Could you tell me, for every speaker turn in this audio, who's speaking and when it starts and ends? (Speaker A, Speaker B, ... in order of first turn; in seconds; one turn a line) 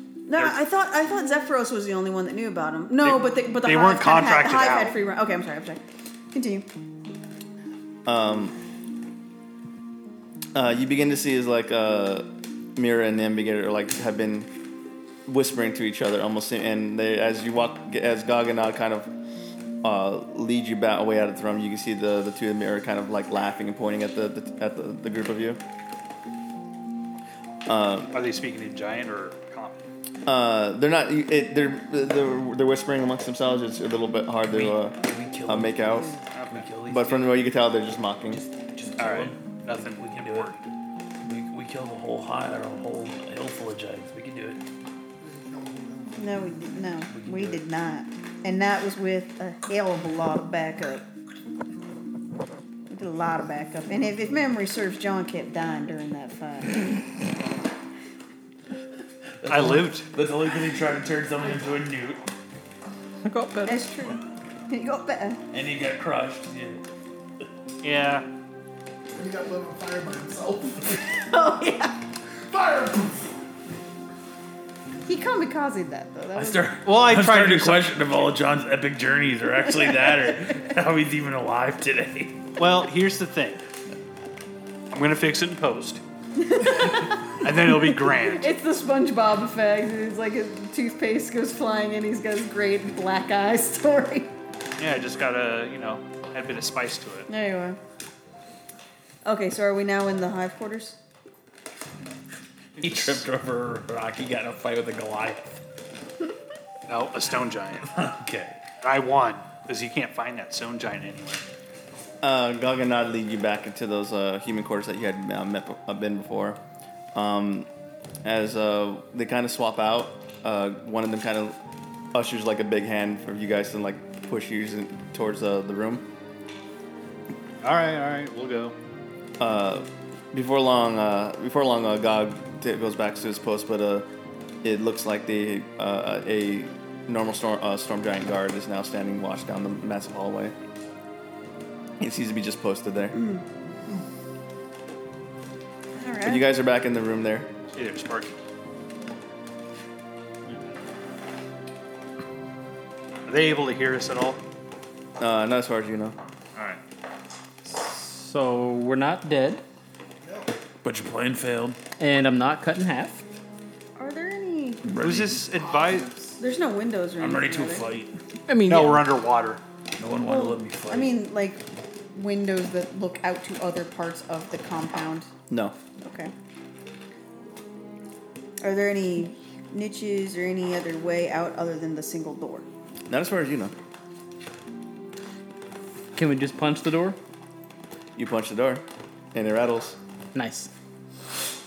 Speaker A: 0.3-6.7
Speaker B: 3.0-5.0
Speaker C: 8.1-8.6
Speaker C: 10.6-14.5
Speaker C: 15.3-19.1
Speaker C: 19.8-25.6
Speaker C: 27.6-28.1
Speaker B: 28.1-29.9
Speaker C: 30.2-36.1
Speaker D: 34.5-37.4
Speaker B: 36.3-36.7
Speaker C: 36.8-38.4
Speaker D: 38.3-40.5
Speaker B: 39.0-40.6
Speaker D: 41.2-44.6
Speaker E: 45.2-46.5
Speaker A: 46.1-51.0
Speaker D: 47.1-47.6
Speaker A: 52.9-57.0
Speaker D: 59.4-62.2
Speaker B: 59.5-60.1
Speaker F: 63.2-63.8
Speaker A: 63.6-65.4
Speaker D: 65.5-66.8
Speaker B: 67.8-68.3
Speaker E: 69.1-71.2
Speaker A: 71.1-72.0
Speaker E: 72.5-73.4
Speaker A: 75.0-76.7
Speaker D: 76.3-82.4
Speaker B: 76.8-78.3
Speaker A: 79.8-80.1
Speaker B: 82.6-83.6
Speaker B: 84.9-86.0
Speaker A: 86.4-87.4
Speaker B: 87.4-88.5
Speaker A: 88.1-94.3
Speaker B: 94.8-97.3
Speaker A: 97.3-97.8
Speaker A: 99.2-101.0
Speaker B: 102.8-103.2
Speaker D: 102.8-105.6
Speaker B: 106.9-107.9
Speaker D: 107.9-108.6
Speaker B: 108.8-111.4
Speaker C: 112.2-116.6
Speaker C: 117.1-117.7
Speaker C: 118.2-121.5
Speaker C: 122.1-126.0
Speaker B: 127.6-128.7
Speaker C: 129.4-134.1
Speaker C: 134.6-140.6
Speaker C: 142.0-143.2
Speaker A: 143.1-143.4
Speaker A: 145.9-146.4
Speaker C: 146.2-147.5
Speaker B: 147.7-148.3
Speaker B: 153.3-154.4
Speaker C: 155.2-156.2
Speaker B: 156.6-156.8
Speaker F: 157.7-159.6
Speaker E: 160.2-160.5
Speaker D: 160.8-161.8
Speaker F: 162.0-163.2
Speaker A: 164.0-164.9
Speaker D: 164.8-165.4
Speaker B: 164.9-166.1
Speaker E: 165.6-166.4
Speaker A: 166.4-167.8
Speaker D: 167.2-168.1
Speaker F: 168.5-169.0
Speaker B: 168.7-169.6
Speaker D: 170.0-171.1
Speaker A: 170.2-171.6
Speaker A: 172.1-175.3
Speaker C: 175.5-175.7
Speaker A: 176.0-176.3
Speaker A: 178.6-182.7
Speaker C: 183.1-183.7
Speaker F: 186.1-187.2
Speaker C: 188.2-190.0
Speaker F: 190.3-190.7